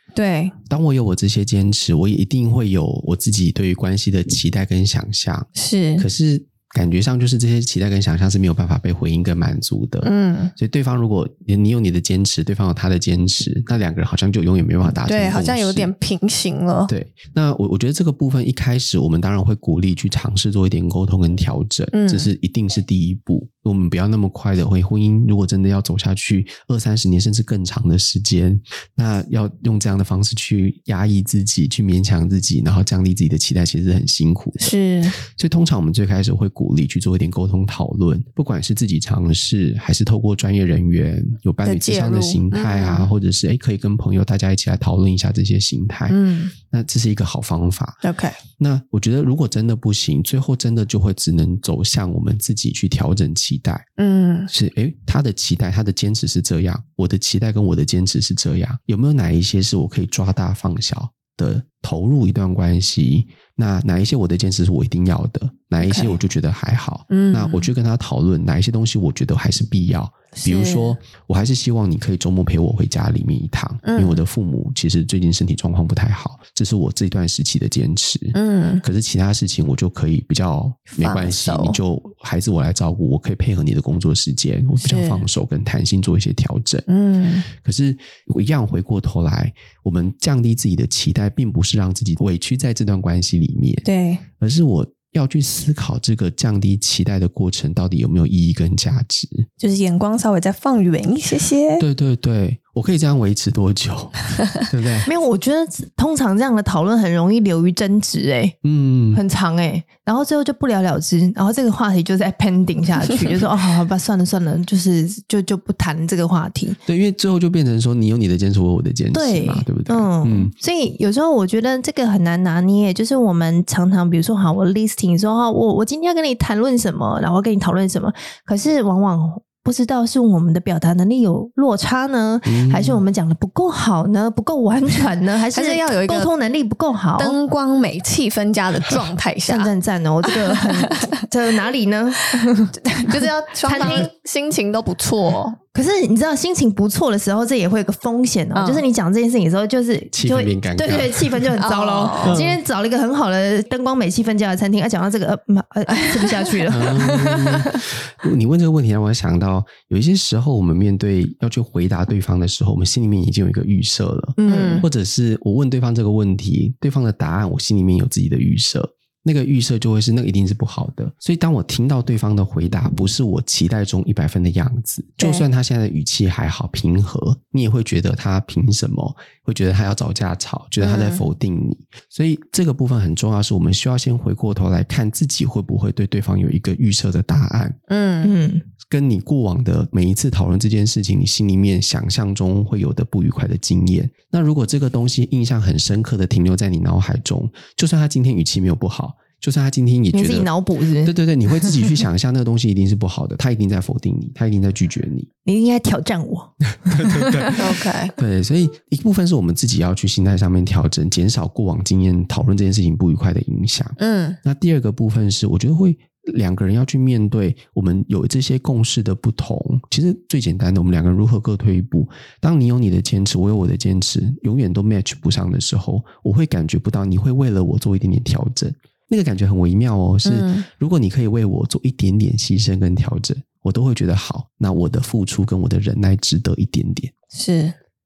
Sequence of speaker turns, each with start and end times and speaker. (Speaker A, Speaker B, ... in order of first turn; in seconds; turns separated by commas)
Speaker A: 0.1-0.5, Speaker B: 0.7-15.9, Speaker A: 5.5-6.1, Speaker A: 10.0-10.5, Speaker A: 15.1-16.9, Speaker B: 16.9-48.0, Speaker A: 21.9-22.3, Speaker A: 34.6-35.2, Speaker A: 41.6-43.1, Speaker A: 46.1-46.5, Speaker A: 48.0-48.4, Speaker B: 48.6-53.8, Speaker A: 54.0-54.5, Speaker B: 54.5-86.8, Speaker A: 65.8-66.2, Speaker A: 67.1-67.7, Speaker A: 70.3-71.0, Speaker A: 73.8-74.2, Speaker A: 78.3-78.8, Speaker A: 80.9-81.8, Speaker A: 84.8-85.2, Speaker A: 86.9-87.5, Speaker B: 87.5-93.8, Speaker A: 93.8-94.2, Speaker B: 94.4-99.5, Speaker A: 99.6-101.8, Speaker B: 101.8-105.1, Speaker C: 105.0-108.5, Speaker B: 108.6-109.2, Speaker C: 109.1-116.8, Speaker B: 116.8-120.5, Speaker C: 119.1-137.4, Speaker B: 132.4-133.0, Speaker A: 135.5-136.3, Speaker A: 137.2-139.7, Speaker C: 139.4-144.1, Speaker A: 140.2-141.1, Speaker A: 142.3-145.6, Speaker C: 145.7-157.7, Speaker A: 148.5-148.8, Speaker B: 150.1-151.5, Speaker A: 151.6-152.4, Speaker B: 152.2-152.6, Speaker A: 155.9-156.6, Speaker B: 156.7-187.8, Speaker A: 164.4-164.8, Speaker C: 164.4-164.8, Speaker A: 180.8-181.2, Speaker A: 187.9-188.3, Speaker C: 188.2-188.6, Speaker B: 188.8-200.5, Speaker C: 200.1-202.0, Speaker B: 201.0-205.3, Speaker C: 205.4-207.6, Speaker B: 206.8-237.1, Speaker A: 207.6-208.1, Speaker A: 214.0-214.4, Speaker A: 230.2-230.7, Speaker A: 237.3-237.7